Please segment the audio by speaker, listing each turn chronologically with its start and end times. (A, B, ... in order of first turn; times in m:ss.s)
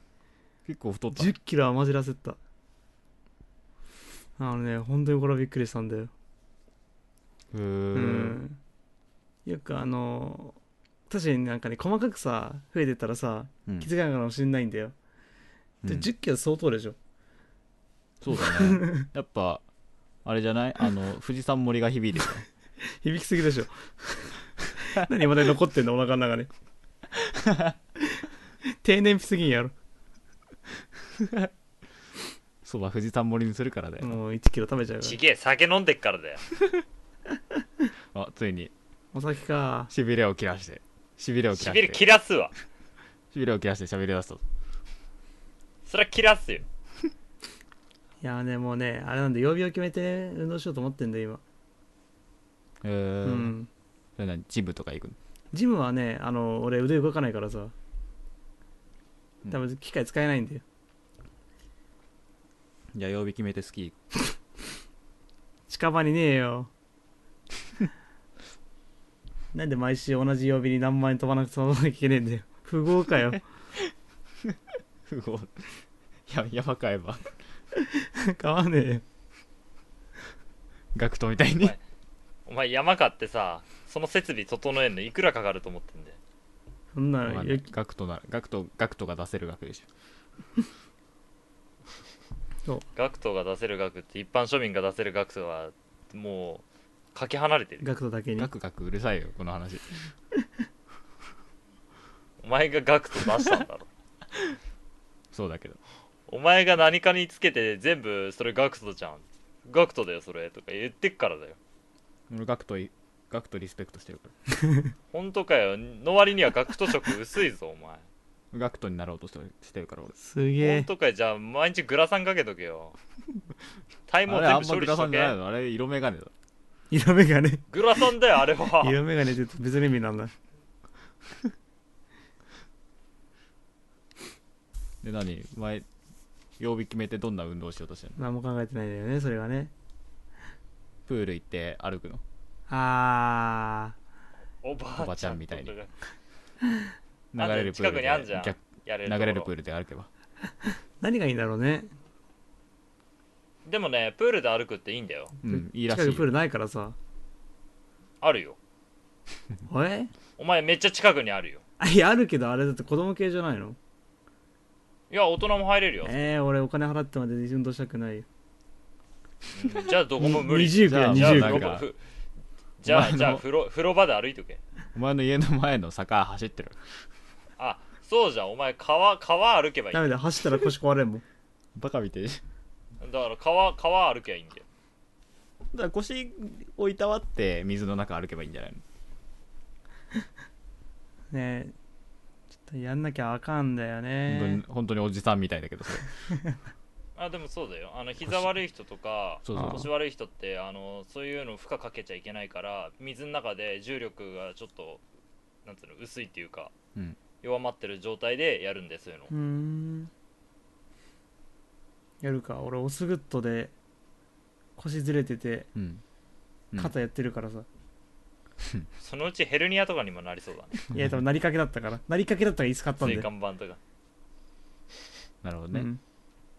0:00.6-0:01.3 A
0:01.1-0:02.4 B
0:04.4-0:06.1 B
0:07.5-0:08.4 A
0:07.9-0:08.6 B
0:09.4-0:10.6 B
0:11.1-0:14.9 B
0:15.8-0:16.1 A
0:15.8-0:17.0 B
0:18.2-0:19.6 A
0:18.4-0:18.9 B
0:20.2-0:22.5 A
0:22.8-0:26.5 B
0:27.2-0:27.7 A
0:28.0-0:29.7 B
0:31.2-0:31.5 A
0:32.6-0:34.2 A
0:34.0-0:35.2 B
0:35.0-0:36.4 C
0:38.1-0:38.7 A
0:39.1-0:39.9 B
0:39.9-0:42.0 A
0:41.5-0:42.5 C
0:43.3-0:44.4 A
0:45.8-0:46.6 C
0:48.2-0:51.4 B
0:52.8-0:53.5 A
0:53.2-0:53.7 B
0:54.2-0:55.2 A
0:55.5-0:57.7 B
0:59.5-1:00.6 B
1:02.9-1:04.0 A
1:05.7-1:06.7 B
1:09.5-1:13.4 B
1:15.1-1:15.7 A
1:16.3-1:17.3 A
1:17.7-1:19.0 B
1:20.9-1:21.7 A
1:22.4-1:26.2 C
1:26.9-1:27.7 B
1:27.2-1:29.9 A
1:33.0-1:37.9 C
1:37.8-1:38.5 B
1:38.4-1:40.0 A
1:42.4-1:43.9 C
1:45.3-1:45.8 A
1:46.3-1:51.6 C
1:52.3-1:54.3 A
1:54.6-1:54.9 B
1:55.1-1:58.0 C
1:58.5-2:00.2 A
2:00.2-2:00.9 B
2:00.6-2:03.0 C
2:04.1-2:05.3 C
2:04.2-2:06.3 A
2:06.9-2:07.6 B
2:07.7-2:09.0 C
2:08.8-2:10.3 B
2:15.0-2:15.9 A
2:16.6-2:18.2 A
2:18.2-2:19.7 B
2:21.1-2:22.2 A
2:22.7-2:24.0 B
2:24.6-2:25.9 C
2:25.0-2:25.7 A
2:27.3-2:30.1 A
2:27.4-2:29.5 C
2:30.6-2:31.9 B
2:33.6-2:35.4 C
2:35.4-2:36.3 A
2:35.4-2:37.0 B
2:38.2-2:38.6 C
2:39.7-2:40.1 B
2:40.4-2:41.6 C
2:41.8-2:43.8 B
2:45.1-2:46.2 C
2:46.0-2:48.2 B
2:49.5-2:52.0 C
2:50.2-2:51.7 B
2:50.8-2:51.9 A
2:52.8-2:54.6 C
2:52.8-2:53.4 A
2:54.9-2:56.8 A
2:57.6-3:00.2 C
2:59.9-3:01.2 B
3:01.8-3:02.4 A
3:03.0-3:04.6 C
3:05.7-3:08.8 A
3:11.3-3:11.7 B
3:12.6-3:14.6 B
3:14.3-3:16.1 A
3:17.2-3:25.0 C
3:19.4-3:19.9 A
3:25.6-3:26.7 C
3:27.4-3:29.3 C
3:29.3-3:30.1 B
3:32.2-3:33.7 B
3:34.8-3:35.7 B
3:35.7-3:36.0 A
3:36.8-3:37.7 B
3:38.6-3:38.9 A
3:39.0-3:40.8 C
3:40.9-3:43.3 B
3:40.9-3:41.2 A
3:43.0-3:43.8 C
3:45.4-3:45.9 A
3:45.7-3:46.0 B